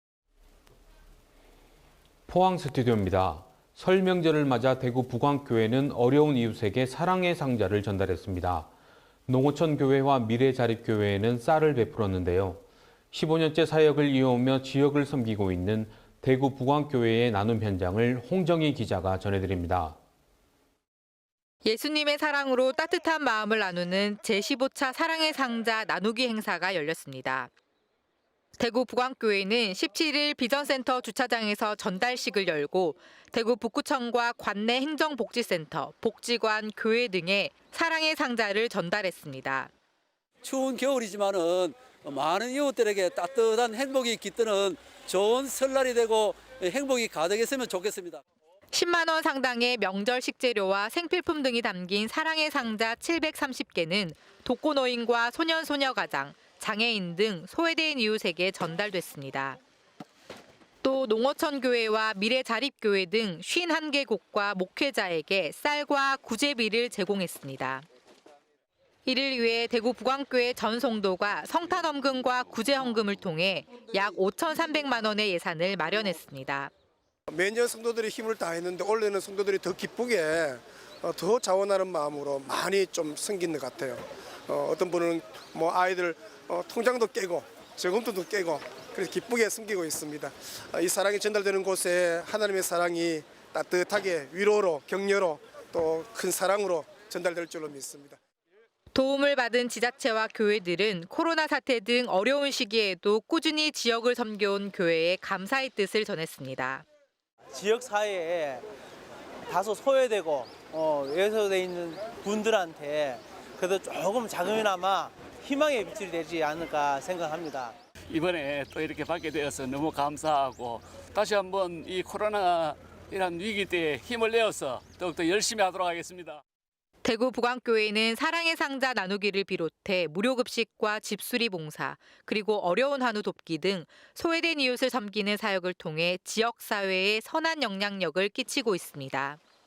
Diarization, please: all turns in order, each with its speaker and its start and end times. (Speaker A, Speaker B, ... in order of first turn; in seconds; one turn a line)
Speaker A: 2.3-8.7
Speaker A: 9.3-20.0
Speaker B: 21.6-27.5
Speaker B: 28.6-39.7
Speaker C: 40.4-48.2
Speaker B: 48.7-59.6
Speaker B: 60.8-67.8
Speaker B: 69.0-76.7
Speaker D: 77.3-98.2
Speaker B: 98.9-106.8
Speaker E: 107.5-108.6
Speaker E: 109.5-117.8
Speaker F: 118.1-126.4
Speaker B: 127.0-139.4